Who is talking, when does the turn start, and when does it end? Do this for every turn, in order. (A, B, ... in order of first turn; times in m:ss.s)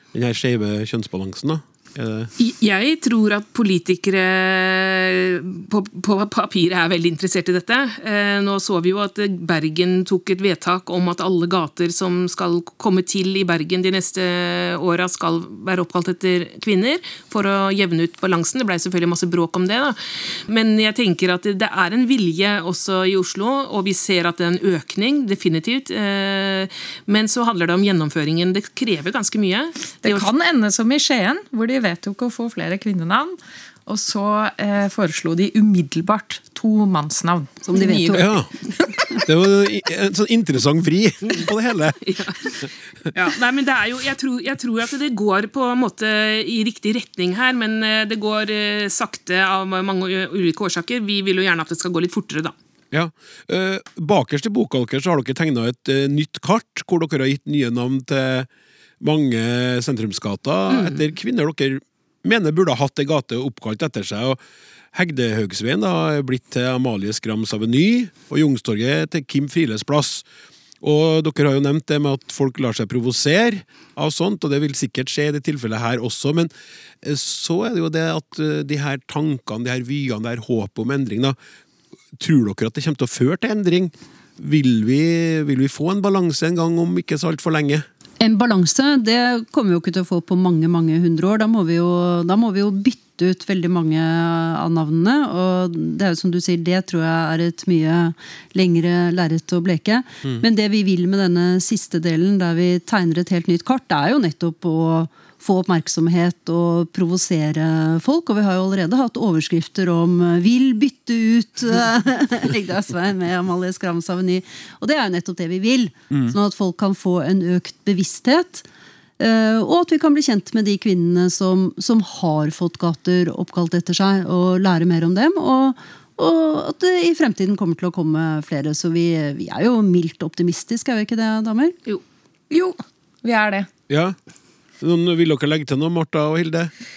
0:00.1-0:02.3 A
0:02.4-0:30.3 B
0:30.0-0:38.3 C
0:37.6-0:38.3 D
0:38.1-0:38.5 A
0:39.0-0:42.7 A
0:42.0-0:42.5 B
0:43.1-0:52.5 B
0:52.9-0:58.5 A
0:59.0-1:04.4 A
1:00.7-1:01.0 B
1:04.9-1:10.2 A
1:10.8-1:16.5 A
1:17.0-1:21.4 A
1:22.2-1:27.8 A
1:28.2-1:58.6 D
1:56.1-1:56.4 A
1:59.2-2:11.8 D
2:12.5-2:13.7 C
2:13.9-2:14.2 A
2:14.8-2:16.7 A